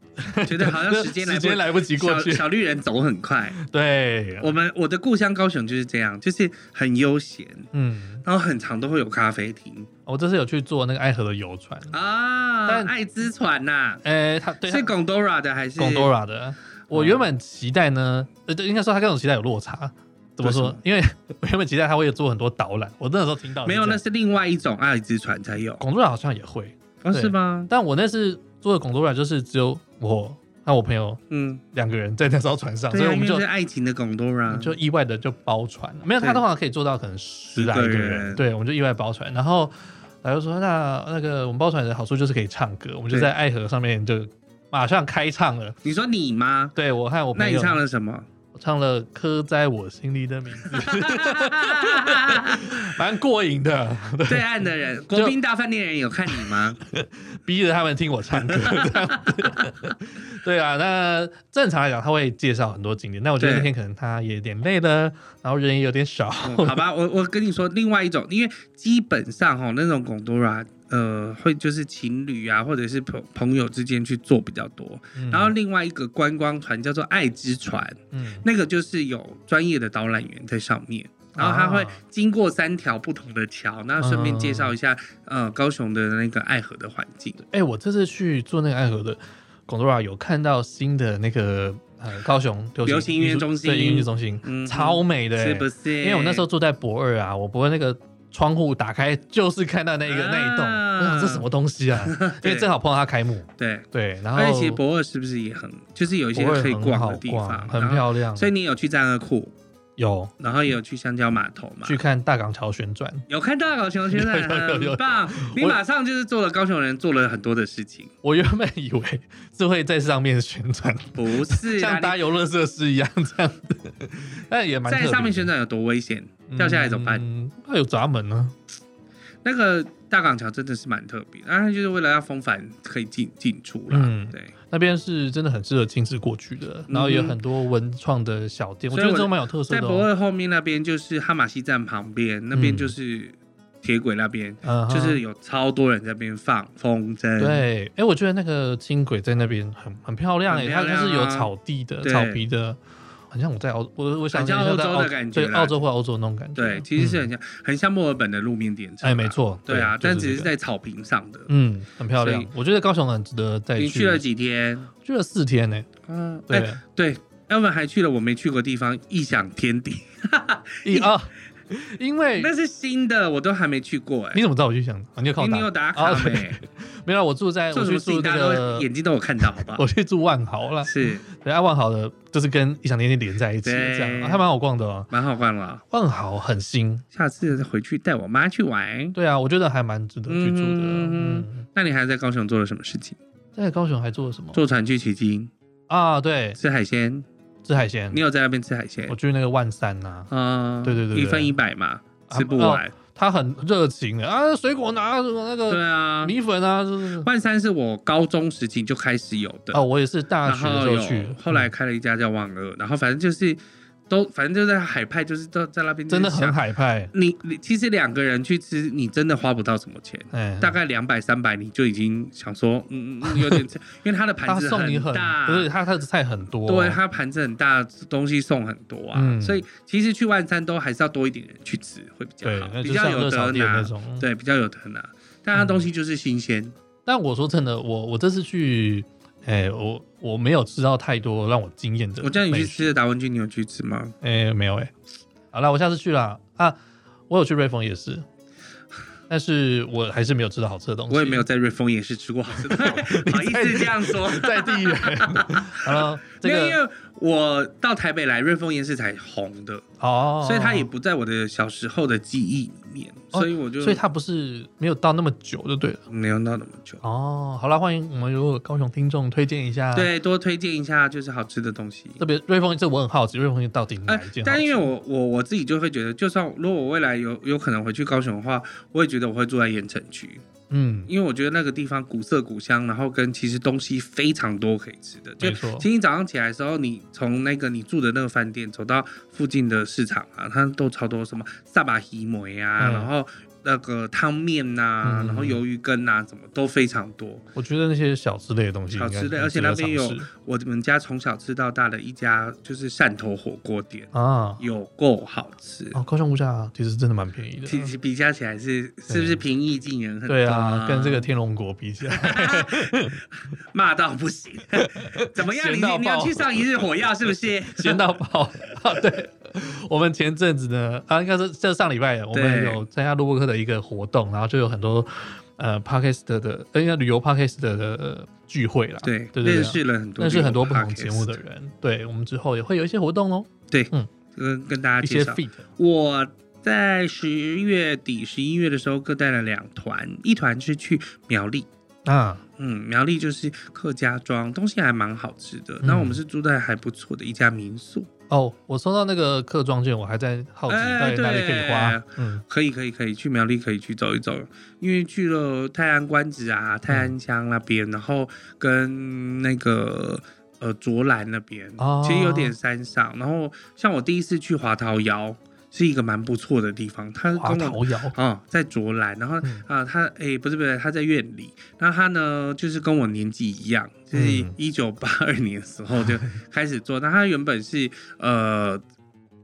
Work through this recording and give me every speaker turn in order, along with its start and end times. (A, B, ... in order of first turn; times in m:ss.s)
0:00.2-0:02.4 A
0:00.4-0:03.6 B
0:03.6-0:04.5 A
0:04.4-0:07.7 B
0:07.7-0:08.2 A
0:08.2-0:09.9 B
0:10.0-0:11.9 A
0:11.9-0:14.0 B
0:12.7-0:12.9 A
0:14.0-0:14.9 A
0:14.6-0:16.1 B
0:15.8-0:24.0 A
0:16.9-0:17.3 B
0:20.4-0:20.8 B
0:23.6-0:25.8 B
0:25.8-0:31.2 A
0:27.0-0:27.7 B
0:31.3-0:31.6 B
0:31.7-0:33.4 A
0:32.9-0:34.8 B
0:34.5-0:45.8 A
0:37.5-0:38.4 B
0:45.8-0:46.7 B
0:46.7-0:47.8 A
0:47.3-0:48.3 B
0:48.5-0:54.6 A
0:50.6-0:52.9 B
0:54.3-0:56.8 B
0:56.3-1:06.8 A
0:58.3-0:59.7 B
1:03.4-1:03.7 B
1:06.4-1:27.4 B
1:15.1-1:15.5 A
1:18.1-1:18.4 A
1:21.3-1:22.0 A
1:24.0-1:24.7 A
1:27.4-1:44.8 A
1:32.8-1:36.5 B
1:40.0-1:41.5 B
1:42.0-1:42.7 B
1:43.6-1:49.5 B
1:46.3-1:48.5 A
1:50.0-1:50.3 A
1:50.4-1:52.0 B
1:51.8-1:53.3 A
1:53.3-1:58.1 B
1:54.1-1:55.8 A
1:58.2-2:05.5 A
2:01.1-2:02.2 B
2:04.9-2:07.2 B
2:06.5-2:08.6 A
2:09.4-2:14.5 B
2:13.9-2:20.1 A
2:16.9-2:17.4 B
2:18.9-2:27.6 B
2:22.5-2:22.9 A
2:24.6-2:25.2 A
2:27.4-2:32.8 A
2:30.5-2:31.5 B
2:32.0-2:32.4 B
2:33.3-2:37.3 A
2:34.3-2:35.8 B
2:36.6-2:41.5 B
2:39.0-2:40.5 A
2:41.5-2:44.2 A
2:42.1-2:42.5 B
2:43.8-2:44.9 B
2:45.0-2:45.9 A
2:46.1-2:51.1 B
2:46.5-2:46.8 A
2:50.8-2:52.5 A
2:52.4-2:54.4 B
2:54.3-2:58.9 A
2:55.4-2:56.6 B
2:57.7-2:59.8 B
2:59.6-3:05.1 A
3:00.8-3:01.2 B
3:03.6-3:04.4 B
3:05.1-3:05.8 B
3:05.9-3:07.0 A
3:07.1-3:09.1 B
3:09.1-3:11.6 A
3:10.3-3:13.2 B
3:13.5-3:14.6 A
3:14.5-3:15.5 B
3:15.9-3:16.6 A
3:16.6-3:17.3 B
3:17.6-3:18.2 A
3:18.1-3:19.1 B
3:19.1-3:20.3 A
3:20.3-3:22.9 B
3:20.8-3:21.5 A
3:22.3-3:27.3 A
3:25.7-3:26.4 B
3:27.2-3:29.8 B
3:29.7-3:31.7 A
3:30.4-3:36.6 B
3:36.1-3:37.1 A
3:37.1-3:45.7 B
3:40.3-3:40.8 A
3:43.3-3:43.6 A
3:44.4-3:47.0 A
3:46.6-3:56.7 B
3:49.1-3:49.6 A
3:52.4-3:54.2 A
3:55.6-3:55.8 A
3:57.0-4:02.9 A
4:02.2-4:04.1 B
4:04.2-4:04.9 A
4:05.5-4:06.8 A
4:07.3-4:08.2 A
4:09.3-4:11.4 A
4:11.1-4:19.8 B
4:12.6-4:16.8 A
4:20.0-4:20.9 A
4:20.4-4:24.0 B
4:23.3-4:26.0 A
4:26.1-4:27.0 B
4:27.0-4:30.1 A
4:29.9-4:32.2 B
4:32.2-4:34.9 A
4:34.1-4:40.4 B
4:40.7-4:41.1 A
4:41.1-4:57.4 B
4:45.4-4:45.9 A
4:52.8-4:53.1 A
4:55.0-4:55.6 A
4:57.5-5:00.3 A
4:58.9-5:06.0 B
5:04.1-5:04.6 A
5:05.9-5:07.9 A
5:07.7-5:11.3 B
5:09.1-5:09.4 A
5:10.3-5:13.2 A
5:12.0-5:13.2 B
5:13.7-5:18.0 B
5:14.8-5:16.6 A
5:17.8-5:34.1 A
5:22.3-5:22.8 B
5:29.0-5:31.4 B
5:33.7-5:41.7 B
5:35.0-5:35.6 A
5:42.0-5:42.4 A
5:42.6-5:48.1 B
5:45.8-5:46.2 A
5:48.3-5:52.4 A
5:50.7-6:18.8 B
5:56.9-5:57.1 A
6:01.8-6:02.5 A
6:07.3-6:08.2 A
6:14.1-6:14.5 A